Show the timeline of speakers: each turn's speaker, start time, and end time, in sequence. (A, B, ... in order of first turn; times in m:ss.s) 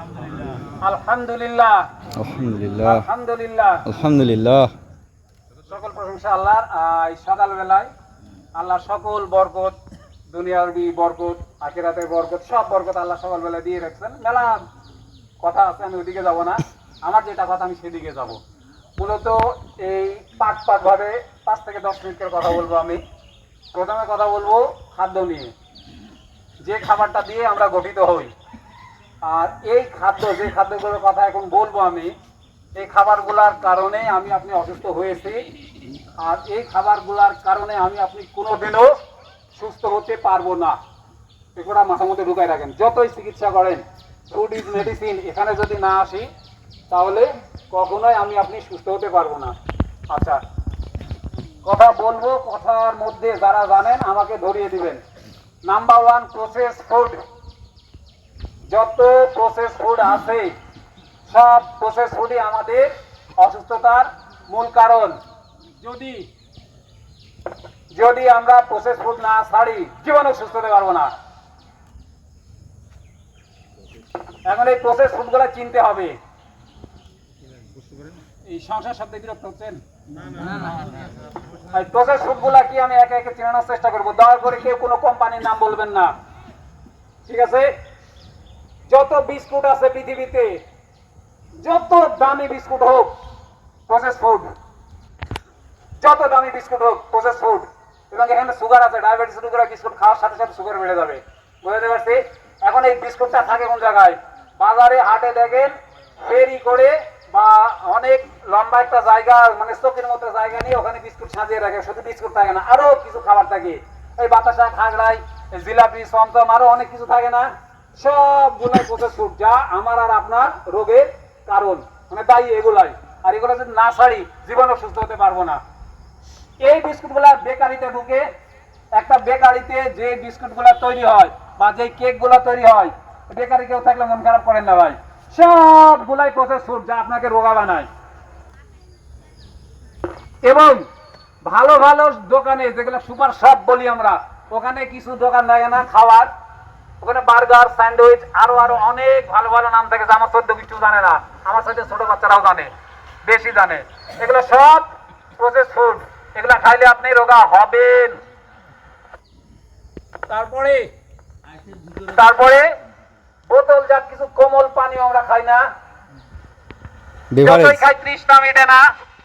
0:00.8-0:01.9 A
0:02.2-0:03.1 B
0:02.8-0:03.8 A
0:03.8-0:04.7 B
0:05.7-0:07.9 A
0:08.5-0:09.8 A
0:10.3-0:14.6 A
0:15.4-0:18.4 A
0:19.0-0:23.0 A
0:23.7-0:25.5 A
0:26.6-0:28.3 A
0:29.2-0:32.1 A
0:32.8-0:35.5 A
0:36.2-0:38.9 A
0:39.6-0:40.8 A
0:41.6-0:46.3 A
0:46.9-0:49.5 A
0:50.1-0:50.4 A
0:51.6-0:55.0 A
0:55.6-0:57.2 A
0:58.7-1:00.5 A
1:01.3-1:05.2 A
1:05.8-1:06.3 A
1:07.9-1:11.1 A
1:14.4-1:16.2 A
1:18.4-1:19.8 A
1:21.7-1:26.1 A
1:27.3-1:27.7 A
1:28.9-1:30.6 A
1:31.6-1:33.1 A
1:33.9-1:34.5 A
1:36.0-2:05.6 A
2:06.6-2:08.2 A
2:08.9-2:17.9 A
2:20.4-2:20.8 A
2:21.4-2:26.3 A
2:27.0-2:32.7 A
2:33.2-2:38.2 A
2:40.3-2:40.8 A
2:42.0-2:42.7 A
2:43.5-2:45.6 A
2:47.3-2:47.8 B
2:47.4-2:48.8 A